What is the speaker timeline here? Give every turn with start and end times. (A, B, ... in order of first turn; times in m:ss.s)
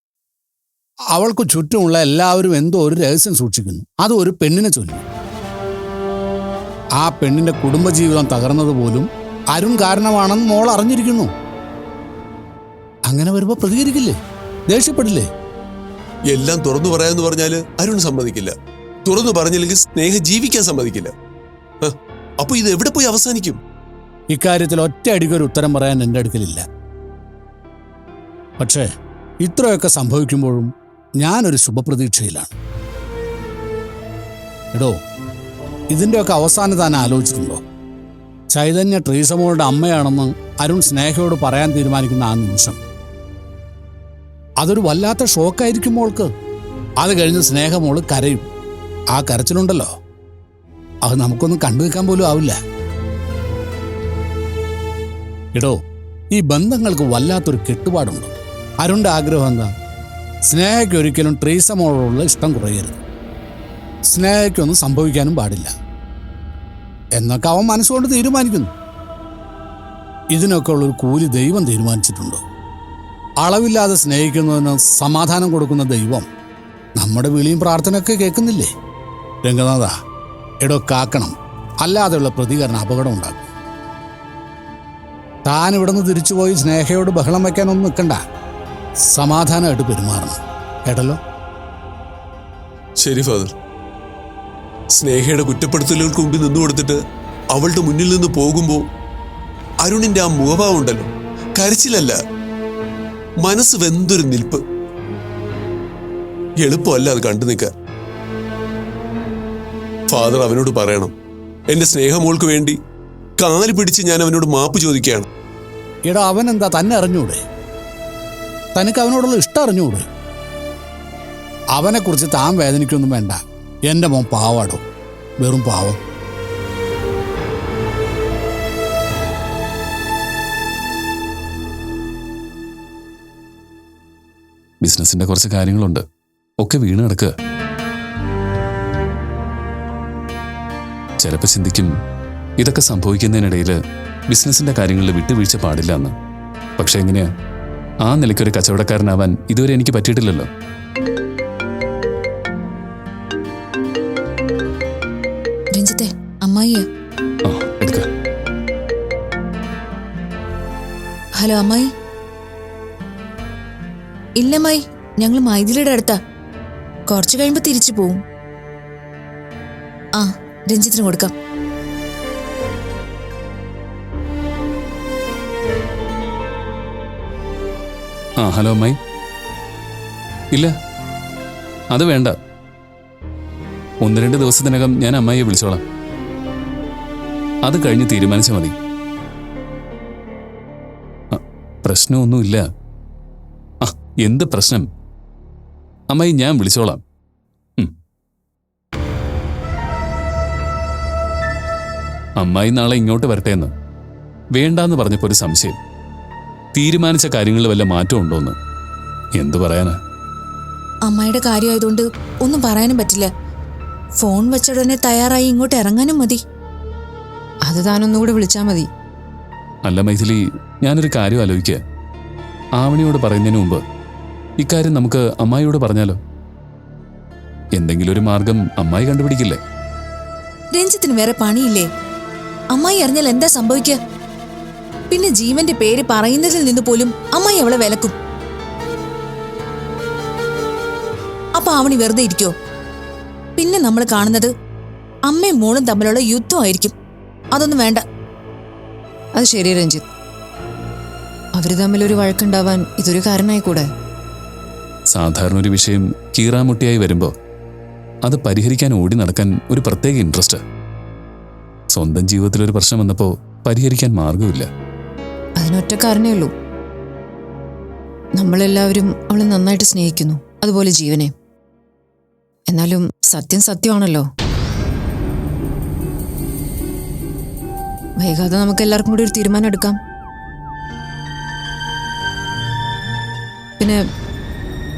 0:01.1-0:05.0 A
0:07.0-0:11.3 A
0:13.1-0:15.3 A
0:16.3-0:21.1 B
0:21.8-0:23.6 B
0:24.3-0:26.6 A
0:28.6-0:28.9 A
0:29.4-0:32.5 A
0:35.9-0:37.6 A
0:38.5-0:42.8 A
0:44.6-0:46.3 A
0:47.0-0:48.5 A
0:49.1-0:49.9 A
0:51.0-0:52.6 A
0:56.3-0:59.7 A
1:00.5-1:03.0 A
1:04.1-1:05.7 A
1:07.1-1:08.7 A
1:10.3-1:12.4 A
1:13.4-1:16.3 A
1:17.0-1:18.7 A
1:19.4-1:19.9 A
1:20.6-1:23.5 A
1:25.5-1:28.2 A
1:29.1-1:31.2 A
1:33.0-1:33.5 B
1:35.0-1:37.0 B
1:37.5-1:38.8 B
1:39.8-1:42.2 B
1:43.4-1:44.6 B
1:46.6-1:47.7 B
1:50.1-1:51.1 B
1:51.7-1:52.8 B
1:53.4-1:55.3 B
1:56.1-1:57.4 A
1:58.8-2:00.1 A
2:01.7-2:04.8 A
2:05.4-2:06.0 A
2:14.8-2:16.0 C
2:16.6-2:17.3 C
2:21.2-2:21.9 C
2:22.6-2:23.8 C
2:24.3-2:26.1 C
2:26.8-2:27.3 C
2:28.0-2:30.5 C
2:35.7-2:36.9 D
2:37.5-2:38.1 C
2:41.4-2:41.9 D
2:44.4-2:46.2 D
2:47.1-2:48.2 D
2:50.2-2:51.3 D
2:58.4-2:59.0 C
3:01.9-3:02.4 C
3:04.0-3:05.8 C
3:07.6-3:08.8 C
3:11.3-3:12.6 C
3:13.8-3:14.9 C
3:16.1-3:17.0 C
3:22.4-3:23.7 C
3:24.6-3:25.8 C
3:26.8-3:28.6 C
3:29.4-3:30.0 C
3:31.0-3:33.3 D
3:34.2-3:36.4 D
3:37.7-3:38.9 E
3:39.8-3:41.8 C
3:42.8-3:43.8 C
3:44.6-3:46.2 C
3:47.8-3:49.6 C
3:50.7-3:51.9 D
3:52.7-3:54.0 D
3:55.1-3:58.2 D
4:01.5-4:02.5 D
4:03.6-4:04.5 D
4:05.3-4:06.9 D
4:07.5-4:08.0 D
4:09.4-4:10.1 E
4:11.6-4:13.9 E
4:15.1-4:17.3 C
4:18.2-4:20.6 C
4:21.9-4:24.7 C
4:25.6-4:26.5 E
4:28.4-4:31.3 E
4:32.7-4:34.3 E
4:38.2-4:40.0 E